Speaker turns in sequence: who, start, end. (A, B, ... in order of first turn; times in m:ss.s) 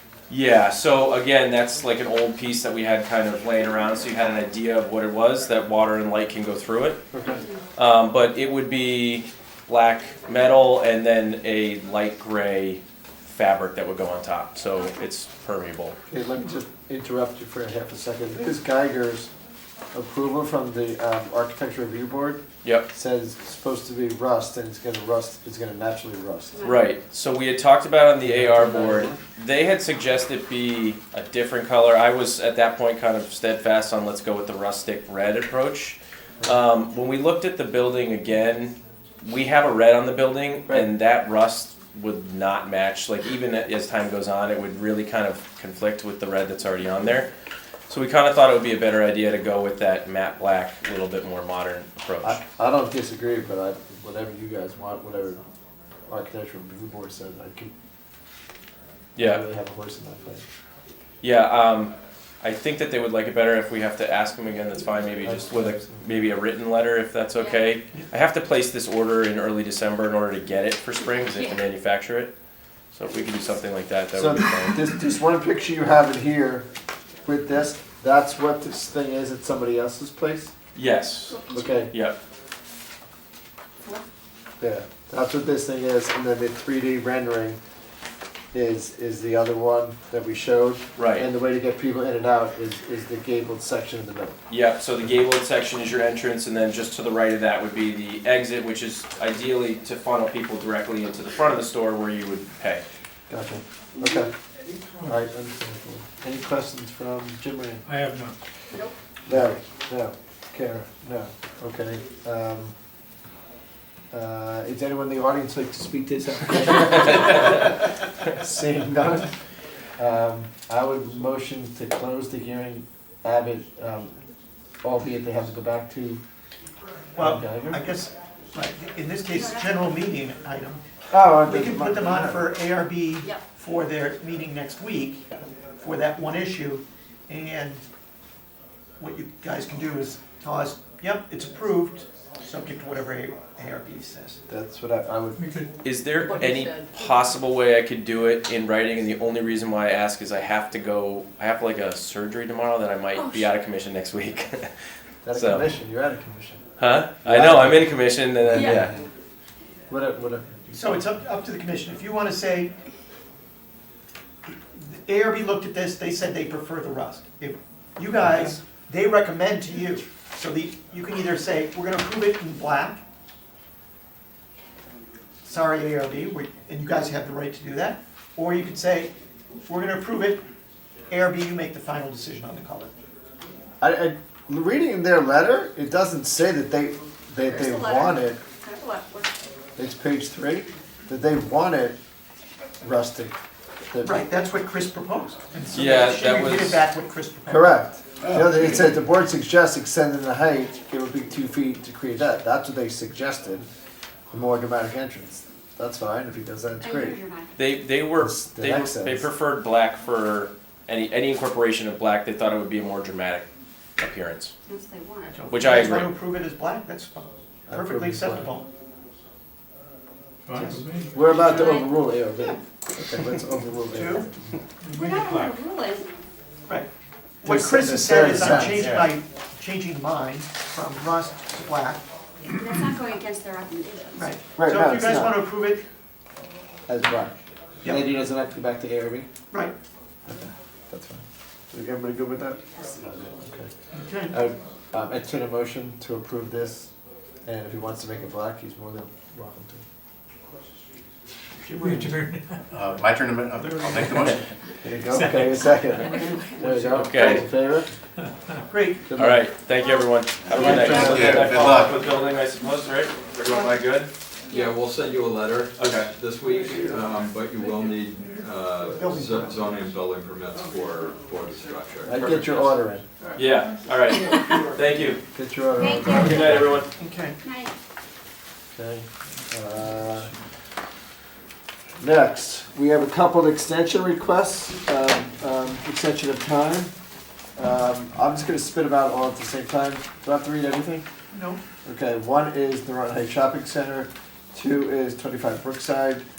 0:00.3-0:07.0 A
0:07.1-0:07.4 B
0:07.2-0:07.6 C
0:07.8-0:16.0 A
0:16.1-0:19.3 B
0:19.9-0:26.7 B
0:26.6-0:47.3 A
0:28.2-0:29.2 B
0:47.9-0:52.4 A
0:52.2-0:55.4 B
0:56.1-0:57.7 B
0:59.2-0:59.4 A
0:59.2-1:00.4 B
1:01.2-1:12.3 A
1:05.2-1:06.0 B
1:11.1-1:11.4 C
1:12.9-1:14.8 A
1:14.1-1:16.7 B
1:17.2-1:20.5 B
1:20.7-1:22.2 A
1:21.3-1:21.9 C
1:21.5-1:21.9 B
1:24.6-1:27.6 B
1:28.5-1:34.4 B
1:31.0-1:31.3 A
1:34.5-1:42.8 A
1:43.3-1:44.3 B
1:45.0-1:48.0 B
1:47.8-1:48.4 D
1:49.3-1:52.7 B
1:54.1-1:59.3 B
2:00.0-2:04.1 B
2:04.8-2:06.2 B
2:07.2-2:10.8 E
2:07.2-2:07.8 B
2:09.3-2:09.8 C
2:11.1-2:12.5 B
2:11.4-2:15.2 E
2:15.8-2:17.8 E
2:19.0-2:24.4 E
2:24.5-2:25.5 B
2:25.4-2:25.7 D
2:25.8-2:34.7 A
2:33.2-2:33.4 C
2:35.2-2:36.6 B
2:35.3-2:35.6 A
2:36.8-2:39.0 A
2:37.2-2:39.0 B
2:39.9-2:41.0 B
2:40.7-2:42.7 E
2:44.8-2:53.0 E
2:48.2-2:48.6 B
2:55.4-2:59.1 E
2:59.6-3:00.4 E
3:01.1-3:02.9 E
3:03.8-3:08.4 B
3:07.4-3:09.4 C
3:09.8-3:12.0 B
3:12.8-3:13.3 B
3:13.9-3:14.2 B
3:14.0-3:17.7 E
3:15.7-3:16.8 A
3:17.5-3:23.7 B
3:24.3-3:27.2 B
3:26.8-3:27.5 C
3:27.6-3:33.5 A
3:28.2-3:29.3 B
3:34.0-3:34.5 A
3:34.6-3:35.4 C
3:35.2-3:38.7 E
3:35.5-3:36.1 A
3:37.7-3:38.5 B
3:40.4-3:41.2 D
3:40.5-3:44.6 B
3:41.3-3:41.9 C
3:43.9-3:44.2 E
3:44.8-3:45.5 D
3:44.9-3:46.1 C
3:47.4-3:52.0 E
3:47.4-3:49.1 B
3:52.4-3:54.3 C
3:54.2-3:55.8 E
3:54.6-3:55.4 B
3:56.9-3:59.3 B
4:00.2-4:03.7 B
4:03.9-4:04.4 E
4:04.3-4:06.9 B
4:07.4-4:09.8 B
4:11.6-4:12.4 E
4:11.8-4:12.6 D
4:12.7-4:14.4 F
4:13.6-4:14.4 D
4:14.8-4:17.9 B
4:15.1-4:15.4 D
4:16.0-4:16.4 C
4:16.7-4:17.5 A
4:18.7-4:19.0 E
4:19.1-4:19.4 B
4:19.1-4:24.1 A
4:19.8-4:20.0 C
4:20.6-4:21.9 F
4:20.8-4:21.4 C
4:24.5-4:32.8 G
4:25.8-4:26.1 A
4:28.9-4:29.7 E
4:32.0-4:33.0 B
4:33.4-4:35.2 A
4:35.3-4:36.8 B
4:35.7-4:36.5 C
4:36.1-4:36.9 A
4:37.0-4:37.4 E
4:37.4-4:37.7 C
4:38.7-4:40.3 B
4:42.0-4:46.9 B
4:47.6-4:51.0 B
4:51.3-4:51.6 E
4:51.8-4:56.2 B